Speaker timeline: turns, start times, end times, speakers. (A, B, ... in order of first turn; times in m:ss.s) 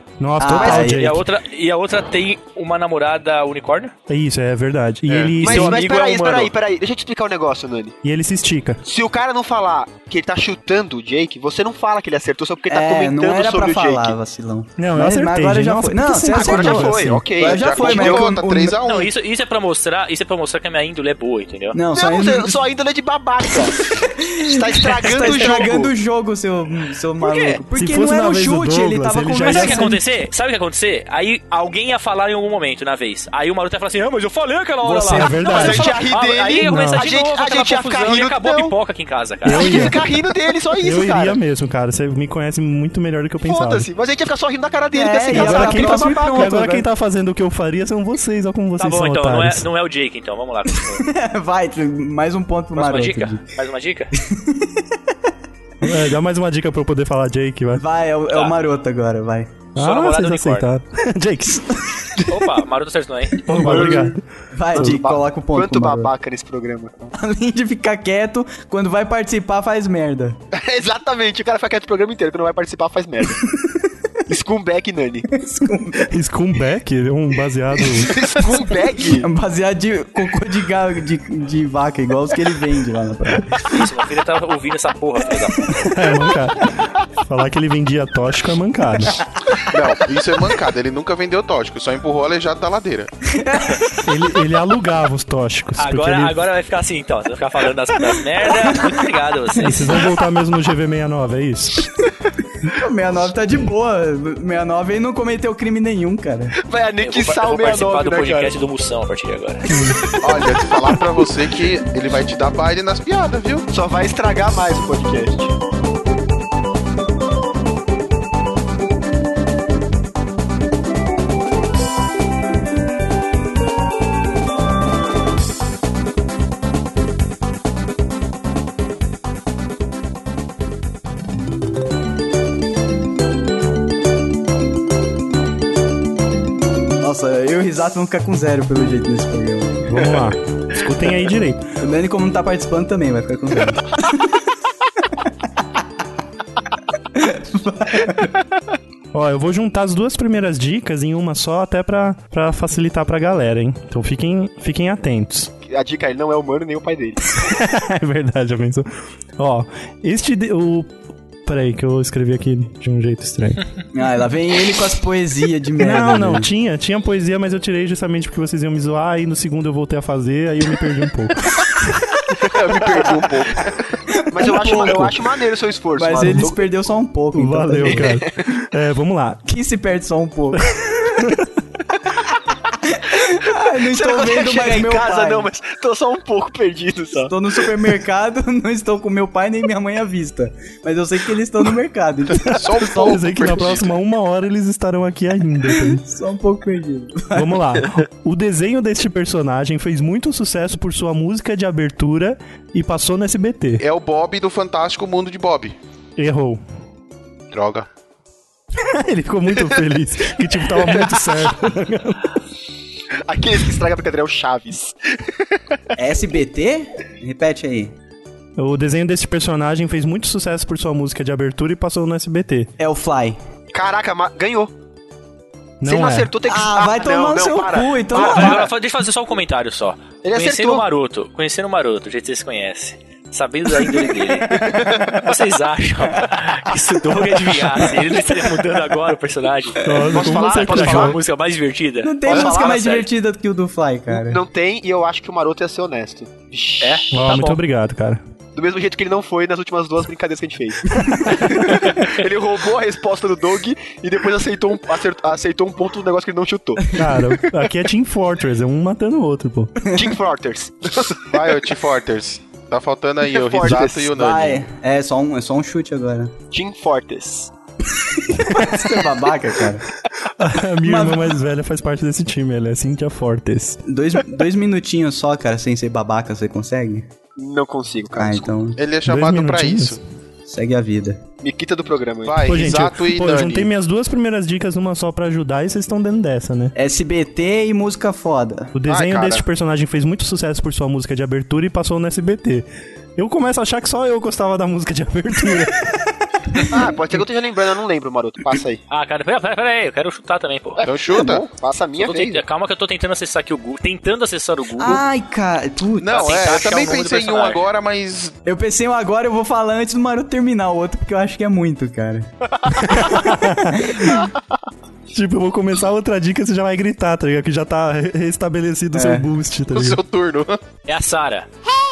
0:00.2-0:01.2 A
0:00.4-0:01.1 B
0:00.6-0:00.9 C
0:00.9-0:03.9 D
0:04.1-0:06.2 A
0:05.1-0:05.6 E
0:05.4-0:08.0 C
0:05.8-0:06.5 D
0:08.0-0:08.8 A
0:08.8-0:14.2 C
0:12.7-0:18.8 B
0:14.8-0:17.3 A
0:16.3-0:18.3 C
0:17.4-0:19.1 E
0:18.8-0:21.8 D
0:21.7-0:22.6 B
0:22.0-0:25.9 C
0:23.9-0:29.9 B
0:27.3-0:27.6 D
0:27.8-0:30.0 A
0:29.4-0:39.9 D
0:34.8-0:35.4 B
0:35.1-0:36.0 A
0:35.4-0:38.7 C
0:36.6-0:37.1 A
0:39.4-0:40.2 A
0:39.5-0:41.4 C
0:40.8-0:43.9 A
0:43.4-0:46.6 C
0:44.9-0:46.9 B
0:45.3-0:49.7 A
0:48.8-0:51.1 D
0:50.7-0:53.4 B
0:52.8-0:54.1 D
0:54.1-0:55.0 B
0:55.8-0:57.8 A
0:57.8-0:59.5 B
0:58.3-0:58.6 D
0:59.8-1:02.2 A
0:59.8-1:00.7 D
1:02.3-1:03.6 D
1:03.4-1:06.1 B
1:03.5-1:04.2 A
1:03.5-1:04.1 C
1:04.8-1:05.0 A
1:04.8-1:07.1 C
1:07.2-1:10.4 B
1:10.5-1:13.4 C
1:14.3-1:15.3 C
1:15.3-1:16.1 B
1:16.0-1:18.2 A
1:17.9-1:19.3 C
1:19.2-1:23.8 B
1:23.6-1:25.7 D
1:25.7-1:29.2 A
1:29.7-1:33.1 E
1:33.3-1:34.0 B
1:34.0-1:36.4 A
1:35.8-1:40.1 D
1:39.6-1:41.9 A
1:42.6-1:46.6 B
1:46.6-1:48.6 C
1:47.0-1:49.7 D
1:49.7-1:50.1 A
1:50.2-1:53.6 E
1:53.7-1:55.5 C
2:17.0-2:20.0 B
2:19.9-2:21.6 A
2:21.8-2:24.4 B
2:27.1-2:28.4 B
2:29.1-2:35.5 A
2:35.6-2:37.4 C
2:37.4-2:38.9 A
2:39.4-2:40.9 A
2:41.4-2:43.6 A
2:43.9-2:46.5 B
2:45.8-2:52.0 A
2:52.4-2:53.4 C
2:52.5-2:53.8 E
2:54.1-2:55.2 B
2:54.3-2:56.6 C
2:56.0-2:58.1 B
2:56.2-2:56.5 A
2:57.4-2:59.4 A
2:57.9-2:58.4 C
2:59.5-3:01.3 B
3:01.2-3:01.4 A
3:02.8-3:05.5 B
3:03.8-3:07.3 C
3:07.3-3:13.3 B
3:12.4-3:13.9 E
3:12.5-3:16.0 A
3:15.6-3:17.8 B
3:17.3-3:23.8 A
3:23.8-3:25.8 E
3:26.2-3:26.6 A
3:27.5-3:27.9 E
3:28.8-3:32.4 A
3:33.3-3:35.0 C
3:36.0-3:37.9 B
3:38.6-3:42.7 A
3:42.8-3:43.4 B
3:43.7-3:44.7 C
3:45.8-3:46.3 A
3:45.8-3:48.7 C
3:46.5-3:48.7 B
3:48.1-4:03.1 D
3:50.2-3:50.8 C
3:54.5-3:55.1 B
3:54.5-3:55.2 C
3:59.8-4:01.2 A
4:00.0-4:01.2 C
4:02.0-4:04.4 B
4:02.3-4:03.0 C
4:04.1-4:07.4 C
4:06.8-4:07.6 D
4:07.1-4:08.2 A
4:08.6-4:17.0 C
4:11.6-4:12.1 D
4:16.9-4:19.8 A
4:19.9-4:21.7 C
4:21.3-4:24.6 E
4:23.3-4:24.2 C
4:24.1-4:26.3 B
4:26.5-4:27.5 C
4:28.2-4:29.8 B
4:28.5-4:29.1 A
4:30.4-4:33.8 A
4:30.8-4:31.3 B
4:33.9-4:37.1 B
4:37.4-4:38.5 C
4:38.2-4:38.8 B
4:38.8-4:40.0 E
4:39.0-4:40.0 A
4:40.5-4:41.2 B
4:41.4-4:42.6 C
4:42.2-4:43.7 E
4:42.5-4:46.7 A
4:46.8-4:48.7 B
4:48.8-4:52.7 A
4:48.9-4:49.4 C
4:53.2-4:55.9 A
4:56.6-4:58.8 C
4:58.9-5:00.8 D
5:00.8-5:02.4 C
5:00.8-5:01.5 E
5:01.1-5:01.4 B
5:02.0-5:05.0 D
5:04.8-5:06.3 B
5:06.0-5:08.4 E
5:06.1-5:07.6 D
5:08.5-5:12.3 B
5:12.7-5:14.0 A
5:13.7-5:14.2 B
5:15.1-5:20.0 A
5:18.9-5:19.3 B
5:19.7-5:20.6 E
5:20.9-5:21.5 D